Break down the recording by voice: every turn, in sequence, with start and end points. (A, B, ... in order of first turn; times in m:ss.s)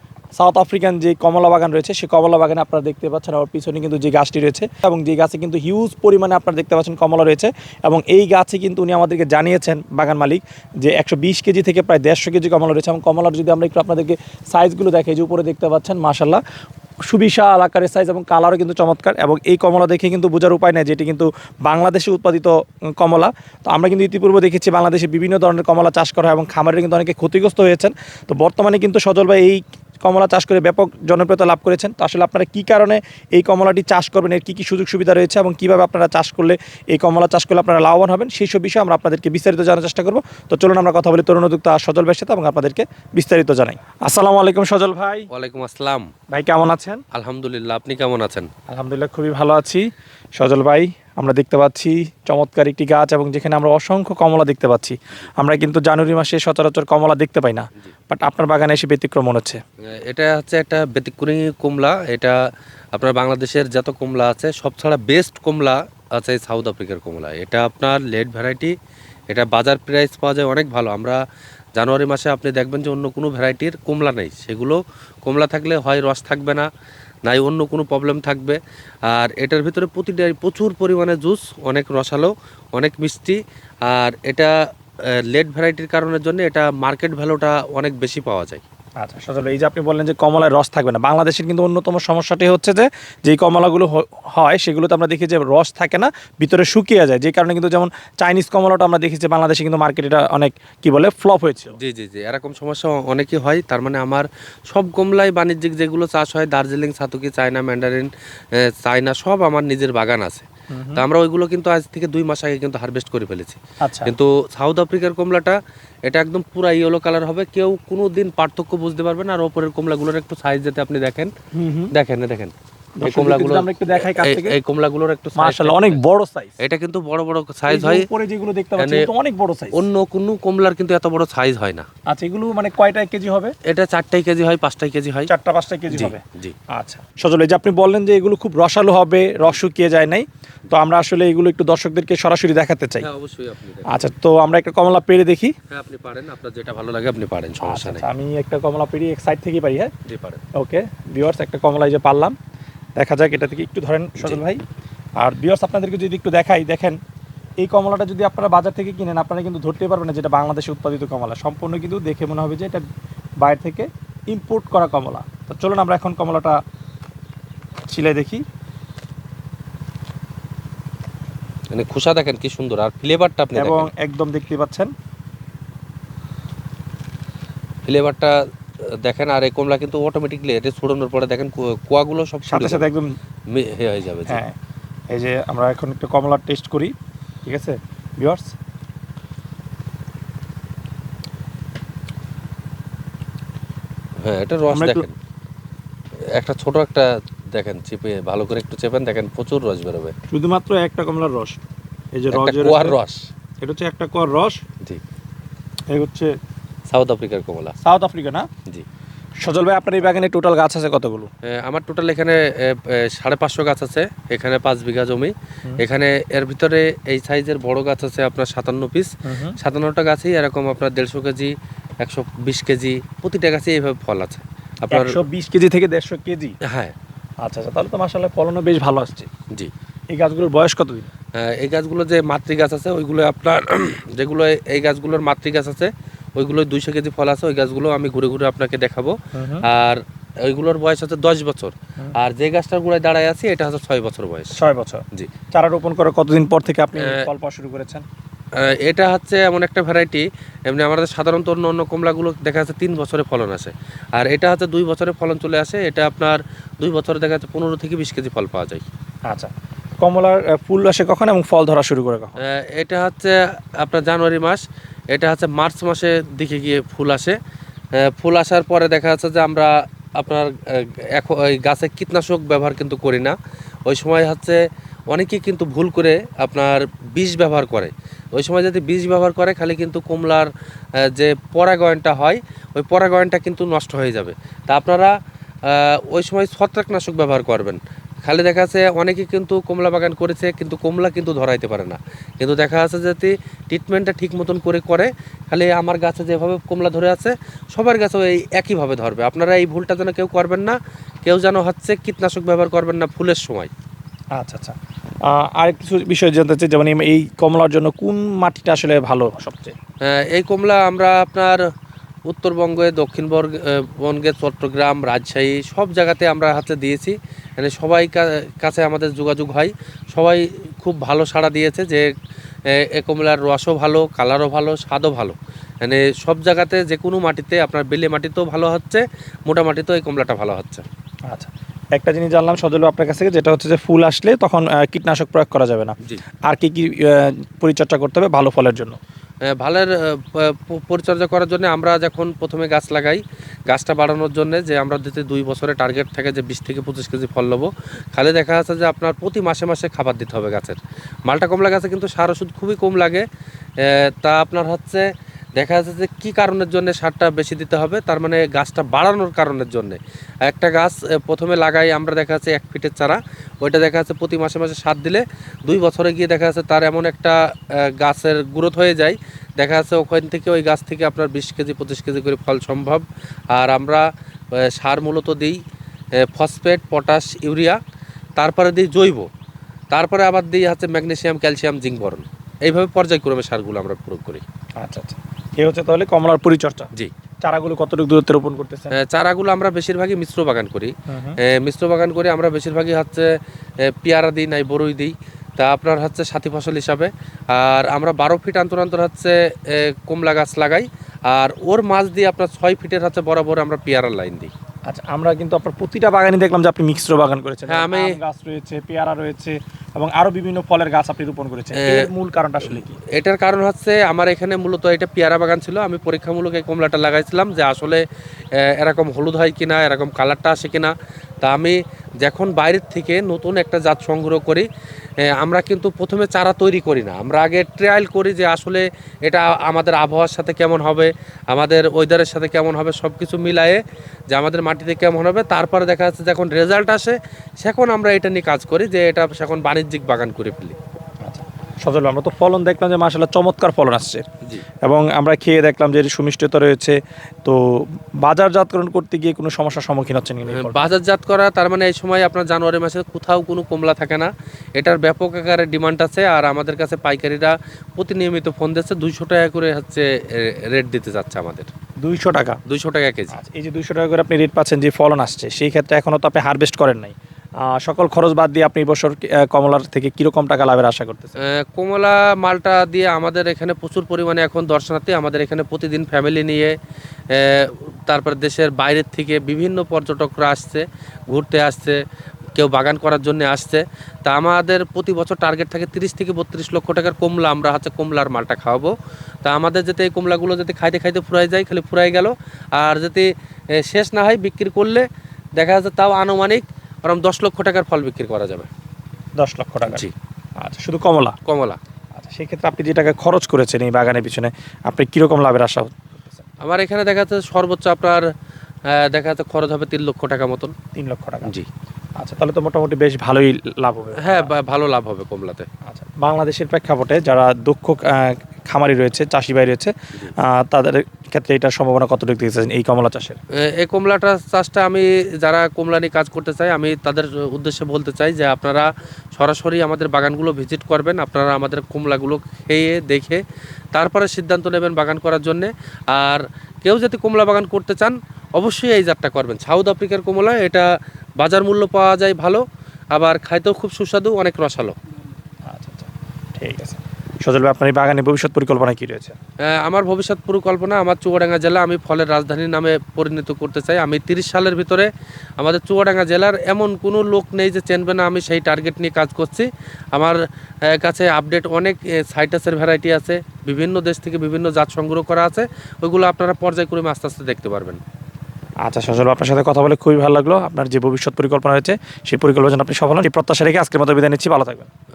0:00.4-0:16.4 A
0:17.1-0:45.3 A
0:45.3-0:46.1 B
0:46.3-0:47.0 A
0:47.1-0:48.5 B
0:48.7-0:49.8 A
0:50.4-0:59.6 A
1:00.0-1:02.4 B
1:02.9-1:08.7 B
1:09.3-1:11.2 B
1:11.8-1:16.7 B
1:17.2-1:24.5 B
1:25.3-1:28.6 B
1:29.0-1:41.8 A
1:41.8-2:01.3 B
1:50.7-1:51.0 A
1:53.8-1:54.1 A
2:01.5-2:01.9 A
2:01.9-2:06.0 B
2:03.0-2:04.6 A
2:05.4-2:06.6 A
2:06.6-2:08.0 B
2:07.7-2:09.8 A
2:08.8-2:09.1 B
2:09.7-2:11.9 B
2:12.1-2:13.5 A
2:13.7-2:15.3 B
2:15.3-2:16.2 A
2:15.9-2:16.5 B
2:16.7-2:23.1 A
2:23.0-2:24.0 B
2:23.9-2:25.5 A
2:25.7-2:28.0 B
2:27.6-2:29.9 A
2:30.1-2:30.4 B
2:30.5-2:32.4 A
2:33.0-2:34.6 A
2:35.2-2:37.0 A
2:37.6-2:42.8 A
2:43.4-2:46.6 A
2:47.9-2:48.4 A
2:51.7-2:53.9 B
2:53.6-2:54.9 A
2:57.8-2:58.4 B
2:59.0-3:02.8 B
3:02.5-3:03.2 A
3:03.5-3:04.4 B
3:04.3-3:04.5 A
3:05.1-3:06.9 A
3:07.4-3:08.5 A
3:14.2-3:15.1 B
3:14.7-3:15.0 A
3:16.3-3:20.1 B
3:20.3-3:21.6 A
3:22.1-3:23.0 A
3:22.3-3:23.3 B
3:23.6-3:24.6 A
3:25.9-3:26.3 A
3:26.9-3:27.8 B
3:27.8-3:28.5 A
3:29.4-3:31.3 A
3:31.5-3:45.2 B
3:39.2-3:39.6 A
3:44.9-3:46.6 A
3:46.6-3:46.9 B
3:47.4-3:49.3 A
3:50.1-3:51.1 A
3:51.4-4:04.6 B
3:59.3-3:59.6 A
4:04.5-4:08.0 A
4:07.0-4:07.2 B
4:08.6-4:18.8 B
4:20.0-4:22.4 A
4:22.4-4:27.4 B
4:28.0-4:34.6 B
4:35.1-4:45.1 B
4:45.6-5:03.7 B
5:04.4-5:09.7 A
5:10.0-5:11.6 B
5:12.3-5:22.0 B
5:22.7-5:30.8 B
5:31.3-5:36.0 A
5:36.5-5:39.0 A
5:39.5-5:53.2 B
5:53.8-5:55.0 B
5:55.6-6:15.6 B
6:16.2-6:17.8 B
6:18.4-6:19.3 B
6:19.9-6:24.4 B
6:24.8-6:26.9 A
6:27.4-6:29.0 A
6:28.9-6:33.3 B
6:31.1-6:31.4 A
6:33.8-6:44.5 B
6:44.9-6:53.0 A
6:47.7-6:48.2 B
6:51.8-6:52.1 B
6:52.6-7:04.7 B
7:05.2-7:13.8 B
7:14.3-7:20.8 B
7:21.2-7:24.2 A
7:24.8-7:30.9 A
7:30.5-7:41.7 B
7:42.0-7:42.6 A
7:42.7-7:43.3 B
7:43.3-7:47.1 A
7:47.6-7:51.4 A
7:51.4-7:56.7 B
7:57.3-8:02.0 B
8:02.6-8:08.9 B
8:09.4-8:15.0 B
8:15.6-8:18.7 B
8:19.4-8:20.0 A
8:20.6-8:21.4 A
8:21.5-8:21.8 B
8:22.1-8:26.4 A
8:26.6-8:28.2 B
8:28.9-8:30.7 B
8:30.9-8:31.5 A
8:32.2-8:34.5 A
8:34.2-8:35.7 B
8:35.8-8:43.4 A
8:43.6-8:53.4 B
8:53.9-9:02.6 B
9:03.1-9:05.0 B
9:05.7-9:09.3 A
9:09.6-9:28.0 B
9:28.8-9:34.9 A